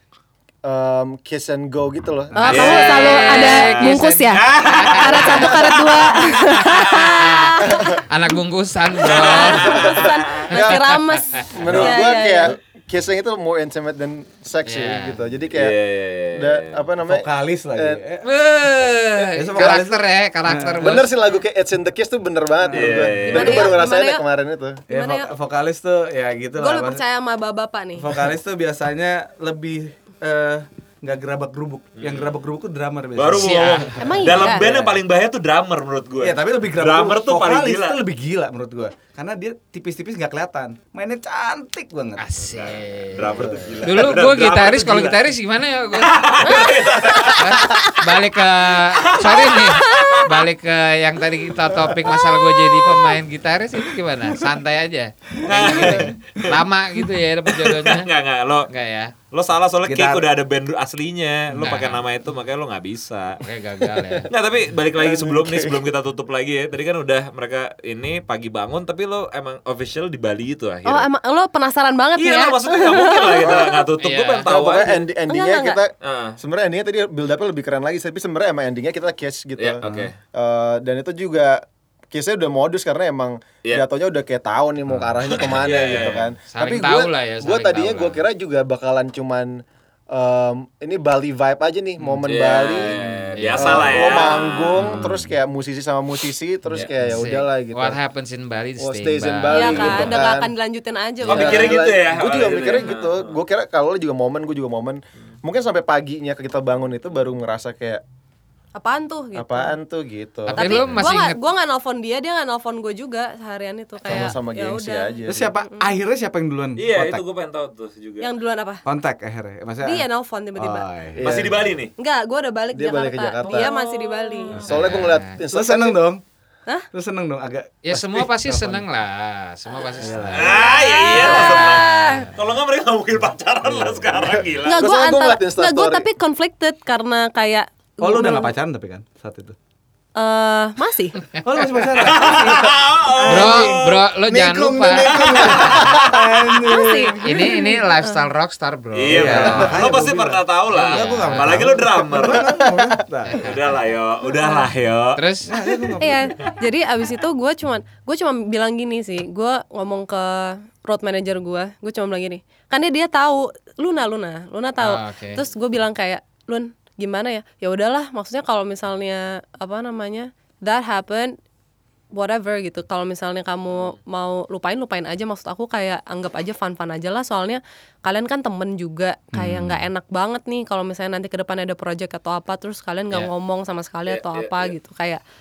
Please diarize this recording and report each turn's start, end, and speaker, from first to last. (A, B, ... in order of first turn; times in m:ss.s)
0:00.6-0:03.0 A
0:02.4-0:08.0 B
0:02.4-0:06.4 C
0:02.5-0:10.0 D
0:07.6-0:08.0 A
0:09.1-0:10.4 C
0:09.1-0:12.5 B
0:09.6-0:15.8 A
0:10.6-0:11.5 D
0:11.6-0:12.0 C
0:14.6-0:15.2 D
0:15.5-0:16.8 C
0:16.3-0:18.0 A
0:17.0-0:18.2 E
0:18.2-0:21.1 D
0:19.4-0:21.0 E
0:20.8-0:24.8 A
0:22.6-0:23.2 E
0:22.7-0:23.8 C
0:23.2-0:24.2 B
0:24.9-0:25.3 B
0:24.9-0:27.0 E
0:26.6-0:28.1 B
0:28.0-0:35.0 E
0:32.0-0:32.4 C
0:33.1-0:38.0 C
0:33.4-0:34.7 B
0:36.2-0:42.2 E
0:42.2-0:58.1 D
0:42.5-0:45.2 C
0:43.3-0:44.4 E
0:45.9-0:47.7 C
0:46.4-0:48.0 B
0:48.9-0:50.3 C
0:49.9-0:50.2 B
0:55.4-0:56.6 C
0:55.5-0:56.0 E
0:57.5-0:58.7 C
0:58.7-0:59.1 D
0:59.3-1:03.4 C
0:59.8-1:00.2 E
1:01.5-1:02.0 D
1:03.4-1:04.3 D
1:04.3-1:11.1 C
1:04.9-1:05.8 A
1:10.8-1:13.8 B
1:12.2-1:15.1 C
1:14.0-1:14.5 D
1:14.4-1:33.0 A
1:15.3-1:15.8 B
1:16.0-1:16.4 C
1:19.6-1:20.1 C
1:25.3-1:26.3 C
1:26.5-1:28.2 D
1:32.2-1:35.3 C
1:33.3-1:34.1 D
1:33.5-1:38.0 A
1:36.7-1:40.2 D
1:38.8-1:40.5 A
1:39.5-1:41.8 B
1:41.2-1:43.4 C
1:41.3-1:48.0 A
1:48.8-1:49.8 B
1:49.3-1:50.8 A
1:50.5-1:51.4 D
1:50.5-1:55.9 B
1:54.0-1:55.5 A
1:55.3-1:57.2 E
1:56.8-1:58.3 C
1:58.2-1:58.8 B
1:58.8-2:00.1 E
1:59.8-2:00.9 B
2:00.6-2:01.3 E
2:01.1-2:01.7 A
2:01.2-2:01.9 C
2:02.0-2:04.6 B
2:02.7-2:03.7 A
2:03.4-2:04.6 C
2:04.6-2:06.1 A
2:04.6-2:05.4 D
2:05.5-2:06.2 E
2:06.9-2:08.8 E
2:07.8-2:10.7 D
2:10.0-2:10.7 E
2:10.3-2:14.8 C
2:10.4-2:12.3 B
2:11.5-2:12.3 D
2:14.6-2:16.0 A
2:14.6-2:18.5 B
2:18.0-2:19.5 E
2:20.2-2:21.2 B
2:21.4-2:27.8 E
2:21.9-2:24.0 C
2:23.2-2:25.7 D
2:25.0-2:26.2 C
2:26.6-2:28.2 B
2:27.2-2:30.0 D
2:28.9-2:32.6 C
2:29.1-2:33.4 E
2:30.7-2:31.8 D
2:32.4-2:32.9 A
2:33.2-2:33.6 D
2:33.4-2:35.2 C
2:34.3-2:34.7 B
2:35.1-2:35.5 D
2:35.5-2:36.3 E
2:36.0-2:51.4 B
2:44.8-2:45.4 D
2:52.1-3:05.2 B
2:59.3-2:59.8 D
3:04.1-3:04.7 C